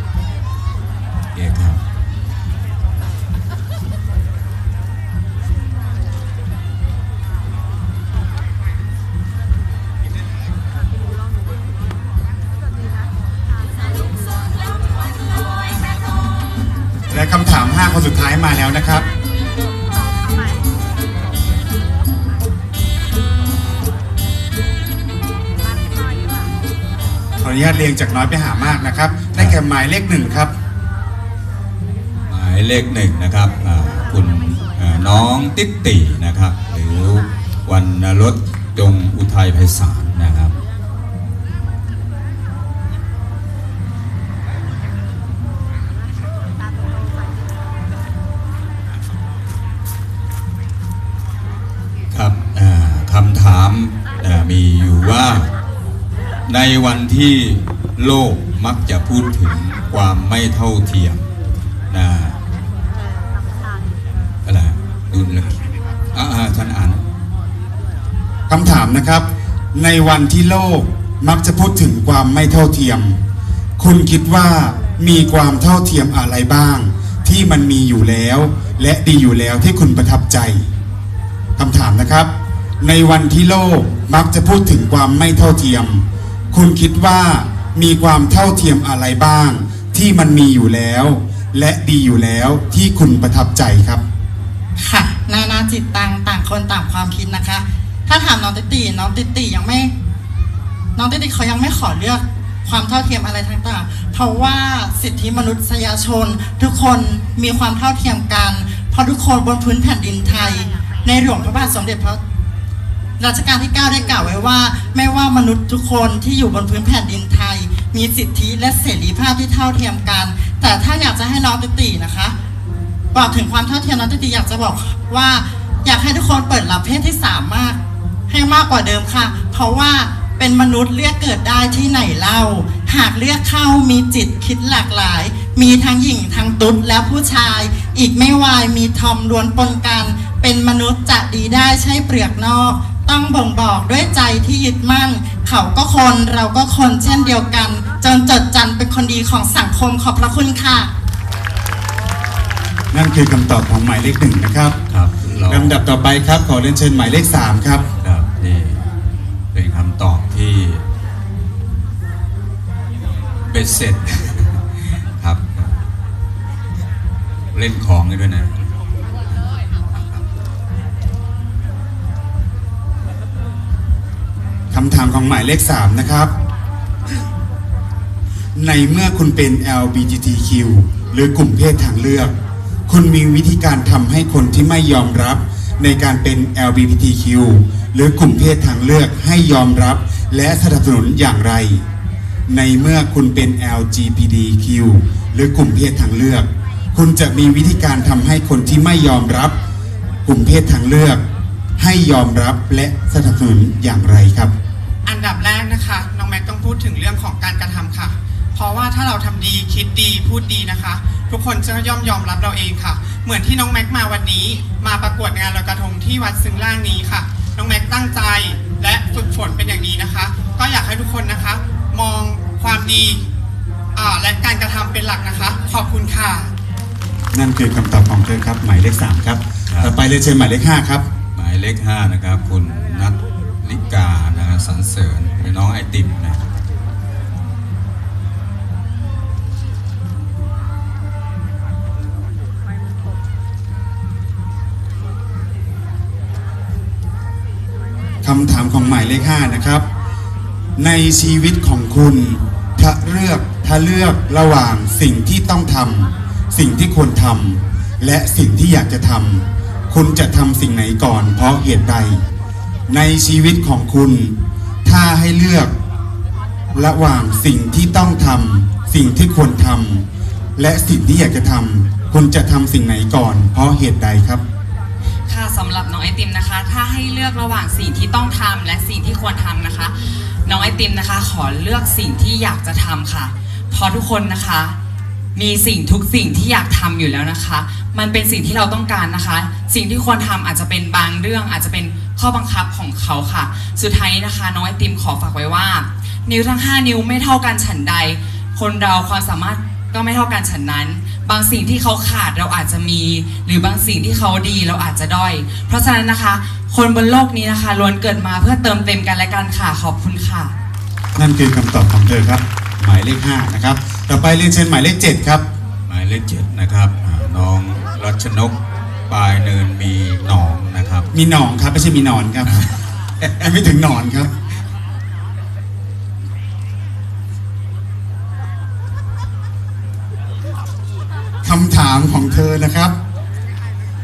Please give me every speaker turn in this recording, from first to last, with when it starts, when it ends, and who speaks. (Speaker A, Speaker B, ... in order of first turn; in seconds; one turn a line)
Speaker A: 1.3-1.8
Speaker B: 17.1-19.1
Speaker B: 27.4-30.5
Speaker A: 32.3-40.5
Speaker A: 52.1-55.5
Speaker A: 56.5-61.2
Speaker A: 61.9-62.4
Speaker A: 64.4-65.6
Speaker A: 66.1-67.0
Speaker B: 68.5-73.2
Speaker B: 73.8-80.6
Speaker B: 81.6-82.3
Speaker B: 82.8-94.0
Speaker C: 94.8-99.9
Speaker C: 101.0-112.2
Speaker C: 113.2-122.3
Speaker C: 123.1-127.8
Speaker C: 128.3-150.9
Speaker B: 152.9-154.8
Speaker A: 154.9-155.8
Speaker B: 155.5-157.8
Speaker A: 158.0-158.8
Speaker A: 159.5-160.8
Speaker A: 163.4-165.7
Speaker A: 167.5-168.7
Speaker A: 169.3-170.2
Speaker B: 174.7-176.3
Speaker B: 178.6-182.3
Speaker B: 182.9-191.8
Speaker B: 192.5-199.5
Speaker B: 200.2-201.2
Speaker B: 201.8-204.5
Speaker D: 205.1-223.2
Speaker D: 223.9-226.5
Speaker B: 227.3-231.0
Speaker A: 229.7-229.9
Speaker A: 231.3-236.4
Speaker B: 248.2-249.8
Speaker B: 250.8-262.2
Speaker B: 262.9-265.7
Speaker B: 266.7-270.0
Speaker B: 270.6-274.4
Speaker E: 275.3-279.9
Speaker E: 280.4-284.8
Speaker E: 285.4-310.5
Speaker B: 311.1-315.4
Speaker A: 315.9-318.6
Speaker A: 319.1-321.1
Speaker B: 321.1-322.6
Speaker A: 322.4-323.4
Speaker B: 323.4-324.3
Speaker B: 331.4-332.9